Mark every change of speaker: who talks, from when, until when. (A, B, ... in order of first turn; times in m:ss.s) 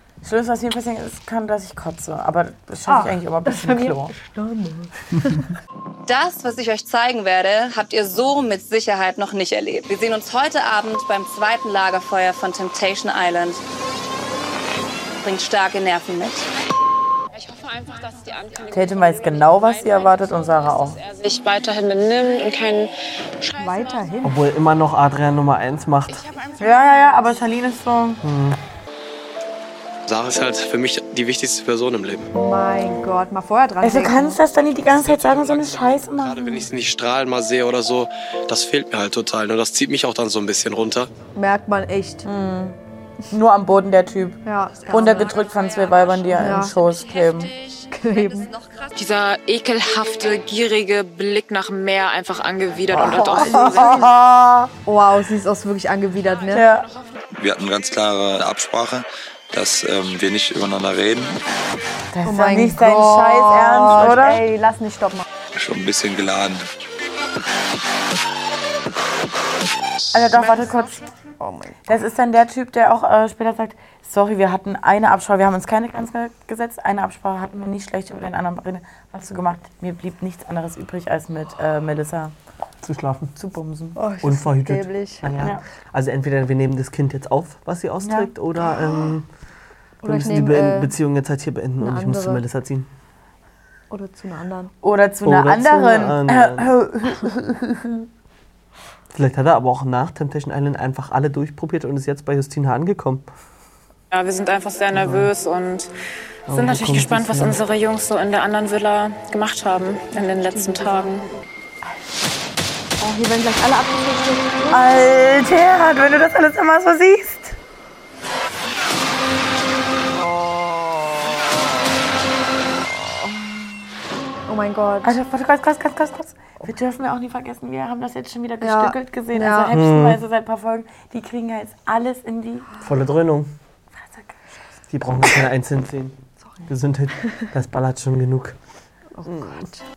0:00.2-0:04.1 A
0:02.8-0:05.5 B
0:06.1-0:13.6 C
0:15.2-0:16.5 C
0:18.7-0:21.0 A
0:21.0-0:22.9 D
0:23.6-0:24.4 B
0:24.2-0:26.2 E
0:26.6-0:28.2 A
0:28.2-0:28.6 E
0:30.1-0:32.3 F
0:32.3-0:34.4 B
0:33.8-0:36.4 A
0:36.3-0:41.1 F
0:41.3-0:42.3 B
0:42.2-0:42.8 A
0:43.3-0:47.5 A
0:44.4-0:45.3 B
0:46.3-0:46.7 B
0:47.9-0:48.5 B
0:49.0-0:53.6 D
0:52.9-0:54.7 A
0:54.8-0:56.7 B
0:56.5-0:56.9 A
0:57.3-1:01.4 G
1:02.1-1:04.4 A
1:02.2-1:05.2 B
1:05.5-1:06.7 G
1:10.1-1:11.0 A
1:10.4-1:10.6 B
1:11.4-1:11.9 B
1:11.9-1:22.3 A
1:22.8-1:23.3 E
1:23.4-1:24.0 A
1:23.9-1:25.2 B
1:24.2-1:29.3 E
1:25.4-1:25.6 A
1:28.0-1:28.3 A
1:30.0-1:30.9 B
1:30.0-1:32.8 E
1:31.8-1:32.4 B
1:33.9-1:34.7 B
1:34.8-1:38.1 A
1:35.2-1:36.8 E
1:39.1-1:43.2 E
1:44.1-1:45.9 D
1:45.0-1:45.3 E
1:46.5-1:47.6 E
1:46.5-1:51.2 D
1:50.5-1:51.1 B
1:53.0-1:55.0 B
1:54.7-1:57.6 A
2:04.5-2:05.1 B
2:05.0-2:12.7 A
2:08.6-2:09.7 B
2:09.7-2:10.2 E
2:12.8-2:13.5 E
2:14.0-2:14.3 A
2:14.9-2:16.2 E
2:16.7-2:18.5 E
2:17.2-2:17.5 B
2:19.2-2:19.8 B
2:19.2-2:19.6 E